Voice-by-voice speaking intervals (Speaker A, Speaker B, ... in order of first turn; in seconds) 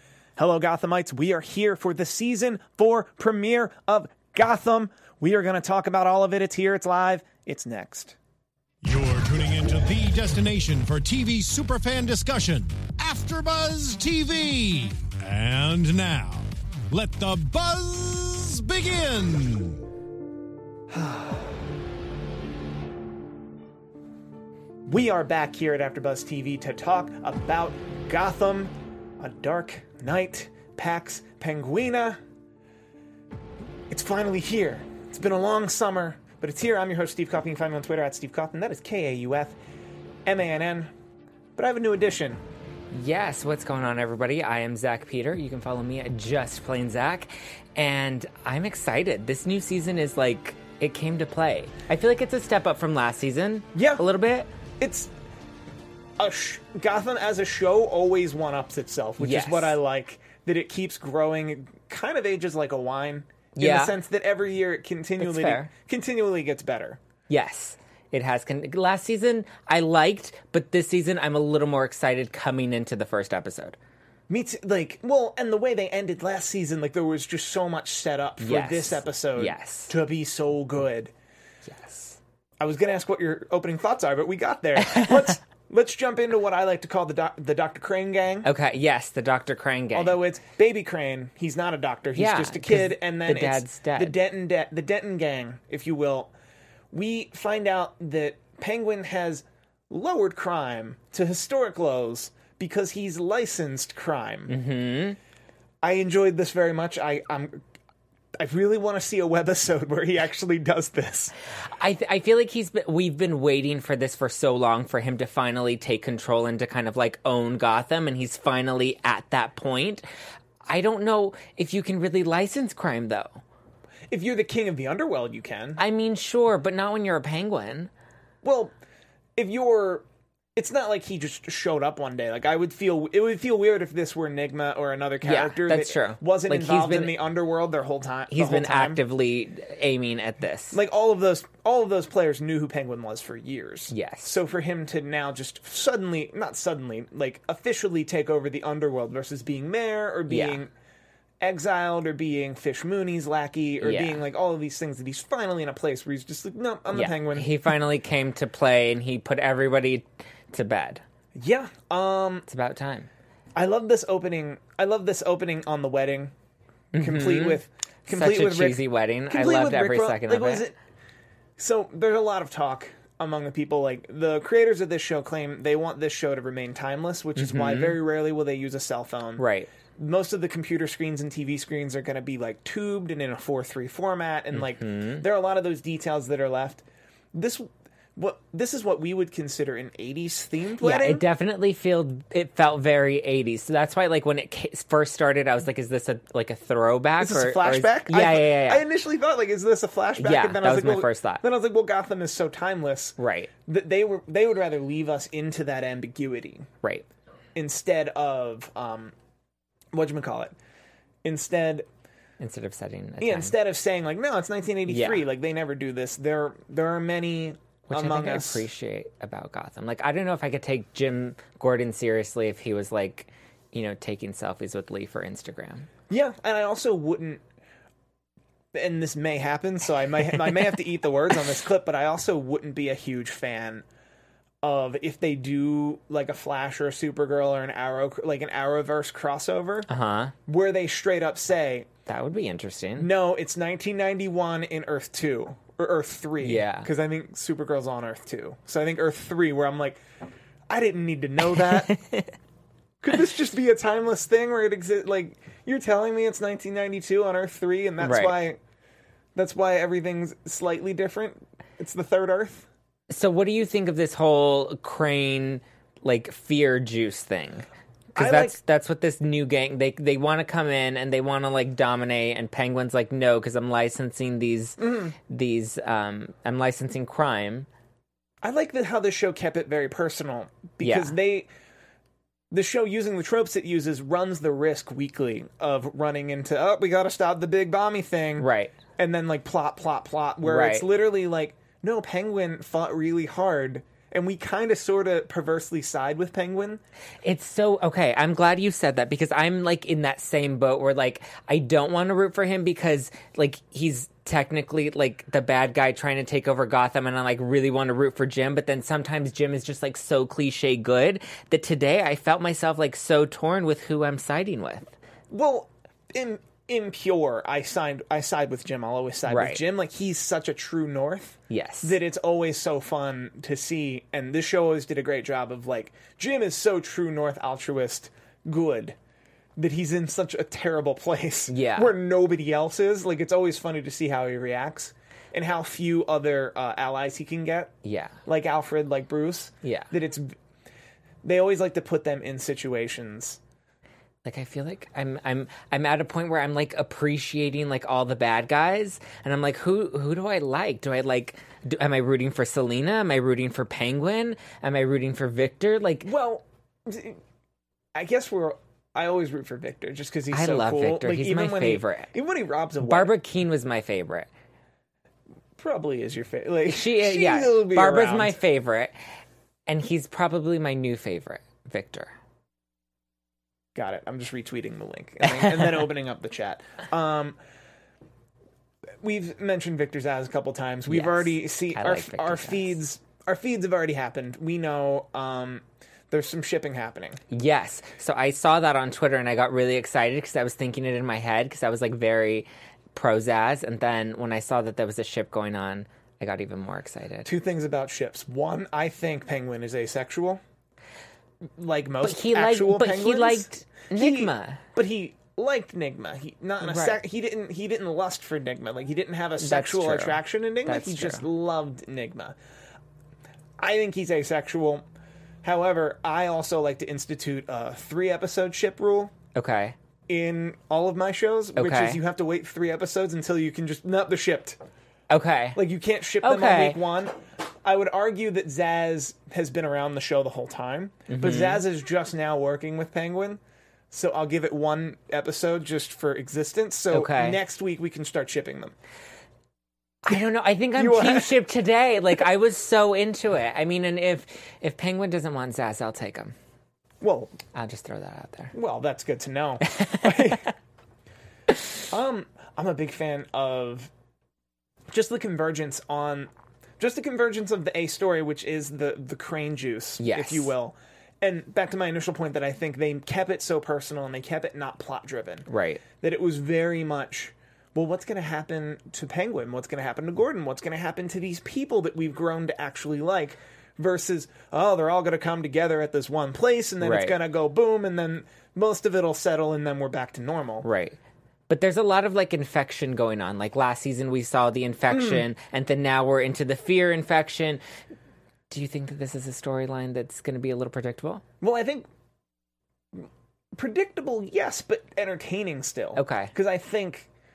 Speaker A: 0.4-8.2, 20.9-21.5, 24.9-32.2, 33.9-39.6, 40.3-40.9, 41.6-42.4, 53.7-54.0, 54.8-55.1, 56.2-67.0, 74.3-81.1, 82.6-88.5, 89.9-96.3, 96.9-104.5, 105.8-107.6, 108.4-111.3, 124.1-125.8, 128.4-128.7, 129.4-130.1, 130.6-139.0, 140.7-150.7, 151.4-157.7, 161.4-162.5, 163.6-166.3, 167.0-170.8, 171.6-179.4, 180.0-191.2, 197.2-206.7, 207.6-209.1, 209.9-210.6, 211.2-211.9, 213.2-218.7, 226.1-227.4, 228.7-233.8, 234.6-239.9, 240.5-241.9, 243.0-250.0, 250.7-251.9, 253.0-258.6, 259.4-262.7, 268.1-268.6, 274.8-275.1, 278.4-281.5, 282.5-296.8, 315.3-329.0, 329.6-340.4, 341.2-343.4, 356.1-357.2, 357.9-363.1, 365.6-368.4, 373.8-377.4, 379.0-387.2, 397.2-400.4, 401.6-412.4, 413.6-414.8, 415.4-419.1, 420.1-424.6, 425.5-438.8, 440.8-441.4, 447.0-447.3, 448.5-450.5, 451.9-453.9, 454.9-465.5, 466.0-480.7, 484.9-485.2, 491.4-491.9, 492.9-497.1
Speaker B: 8.8-19.8
Speaker C: 42.9-54.5, 59.2-59.8, 63.6-64.0, 65.2-65.7, 67.3-73.8, 78.4-79.9, 81.7-82.2, 84.9-85.3, 88.4-90.2, 92.2-94.2, 104.5-105.2, 111.7-120.1, 120.7-123.4, 125.8-127.9, 135.2-137.2, 138.3-140.8, 143.9-144.4, 150.3-150.6, 153.8-154.2, 156.9-161.0, 162.5-163.1, 166.9-170.7, 177.4-178.0, 179.4-179.7, 184.5-185.2, 190.8-198.8, 200.2-201.4, 203.2-203.5, 212.4-213.6, 214.9-215.2, 217.9-225.9, 239.9-240.3, 242.1-243.1, 246.4-246.9, 251.8-252.3, 258.0-258.4, 263.1-277.7, 280.8-281.1, 288.4-288.7, 290.4-290.9, 297.2-314.9, 319.3-319.6, 321.5-322.0, 331.5-331.9, 337.8-338.2, 339.6-339.9, 344.2-356.1, 360.3-362.1, 362.8-364.3, 366.7-368.9, 369.7-372.1, 375.3-375.8, 380.9-382.8, 387.3-397.3, 402.0-404.6, 406.6-407.0, 409.4-411.2, 419.4-419.8, 421.6-422.0, 425.1-425.6, 426.2-426.8, 431.1-431.6, 436.9-437.4, 440.1-446.3, 447.5-448.5, 449.8-450.4, 460.0-460.5, 465.5-465.8, 476.8-477.2, 480.6-481.0, 481.5-487.6, 488.5-491.2, 496.0-496.3